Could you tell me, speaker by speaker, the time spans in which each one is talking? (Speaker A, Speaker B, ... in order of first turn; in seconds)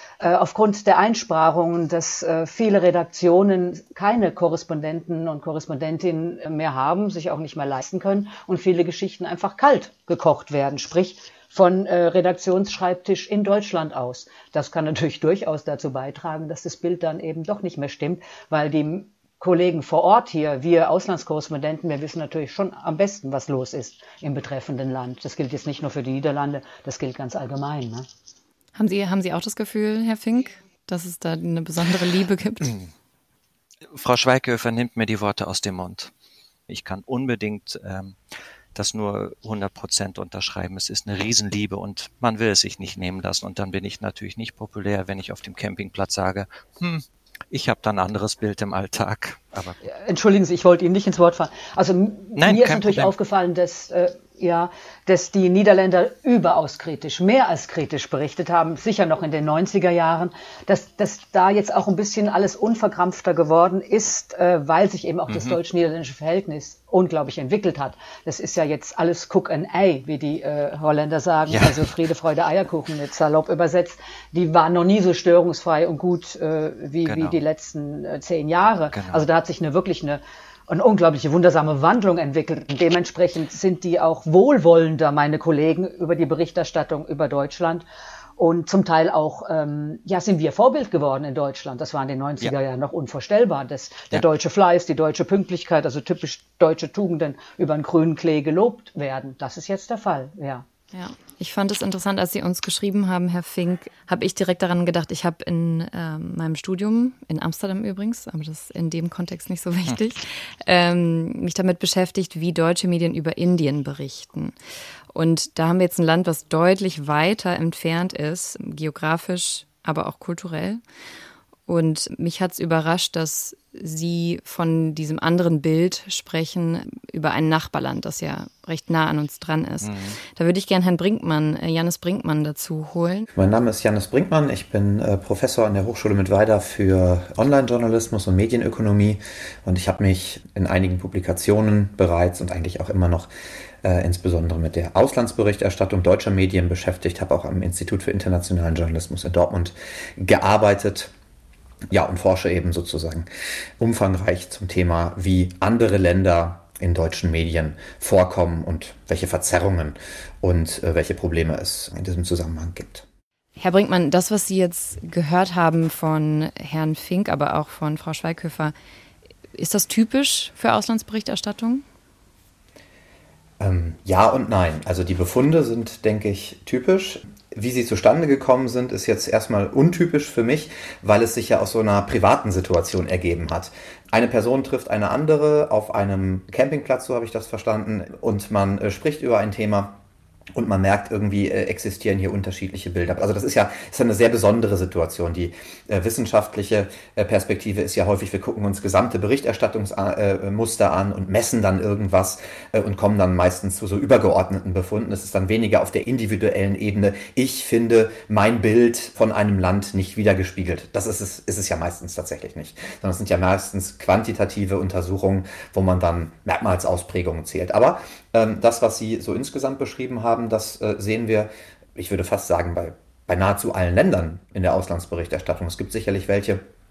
Speaker A: 0.2-28.1, 49.8-87.8, 88.4-100.6
Speaker B: 28.8-32.7, 100.9-114.5, 115.1-120.8, 121.7-133.3, 163.6-168.7, 169.5-171.8
Speaker C: 33.9-36.1, 36.7-38.2, 38.7-49.8, 52.4-53.1, 65.3-65.6, 71.5-71.9, 77.0-77.4, 78.9-79.2, 129.8-130.2
Speaker D: 133.3-143.3, 143.8-151.1, 151.9-153.3, 153.8-163.1, 173.6-190.0, 190.5-226.6